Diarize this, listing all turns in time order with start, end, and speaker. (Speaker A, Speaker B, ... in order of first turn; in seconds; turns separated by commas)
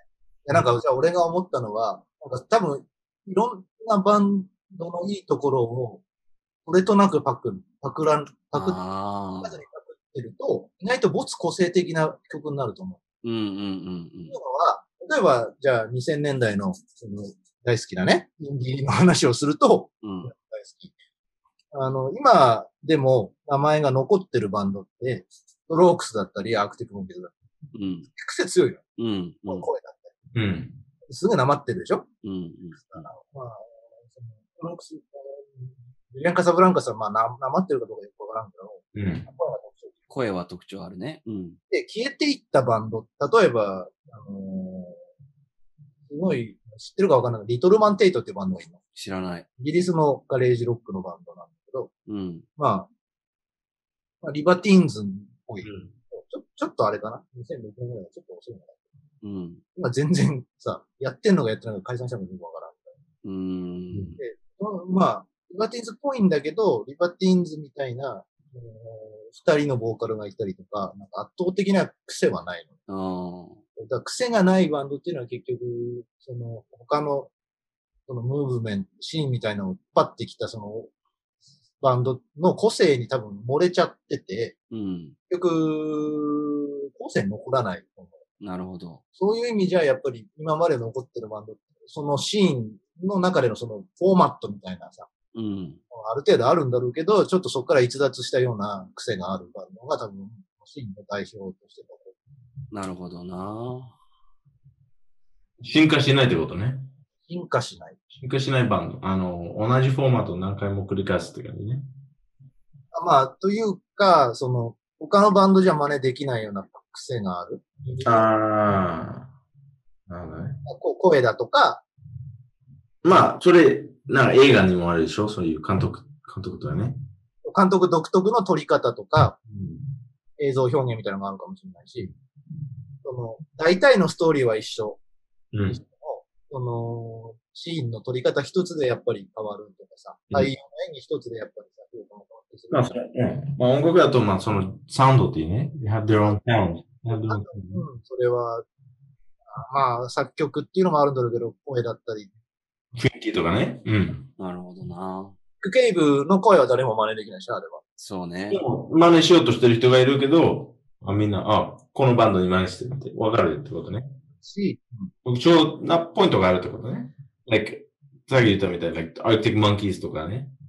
Speaker A: 0.5-6.0, Speaker A: 6.7-8.8, Speaker B: 8.5-9.6, Speaker A: 9.4-13.0, Speaker B: 13.2-14.3, Speaker A: 14.3-20.9, Speaker B: 20.0-20.3, Speaker A: 21.7-27.3, Speaker B: 27.7-28.1, Speaker A: 28.1-28.8, Speaker B: 29.0-29.7, Speaker A: 29.5-30.1, Speaker C: 30.3-30.8, Speaker A: 31.1-32.1, Speaker B: 32.2-33.1, Speaker A: 32.9-40.0, Speaker C: 38.9-39.2, Speaker B: 40.1-41.6, Speaker A: 41.7-45.0, Speaker A: 46.1-48.8, Speaker B: 48.9-49.5, Speaker A: 49.6-51.9, Speaker B: 52.1-52.5, Speaker A: 52.6-52.9, Speaker A: 54.2-58.8, Speaker C: 55.6-55.9, Speaker B: 59.2-59.6, Speaker A: 59.8-62.9, Speaker B: 63.2-64.2, Speaker C: 63.9-64.2, Speaker A: 64.2-72.7, Speaker B: 72.9-73.6, Speaker A: 73.8-77.3, Speaker A: 78.1-80.9, Speaker A: 81.8-84.5, Speaker B: 84.7-85.2, Speaker A: 85.3-88.1, Speaker B: 88.4-89.0, Speaker A: 89.2-95.1, Speaker B: 95.3-95.8, Speaker A: 95.9-102.1, Speaker B: 102.7-104.0, Speaker C: 105.6-106.9, Speaker A: 107.3-108.0, Speaker C: 108.2-111.8, Speaker A: 112.9-118.3, Speaker C: 118.0-119.3, Speaker C: 120.1-120.6, Speaker A: 120.7-121.8, Speaker C: 123.0-127.0, Speaker A: 127.4-129.4, Speaker C: 129.5-129.8, Speaker A: 130.4-132.1, Speaker A: 133.0-135.0, Speaker C: 135.5-135.8, Speaker A: 135.7-142.9, Speaker C: 142.7-147.8, Speaker A: 147.1-148.6, Speaker A: 149.5-152.3, Speaker C: 152.9-154.3, Speaker B: 154.4-155.3, Speaker A: 155.6-157.8, Speaker B: 158.0-158.6, Speaker C: 158.5-164.2, Speaker A: 164.4-165.1, Speaker C: 165.2-170.5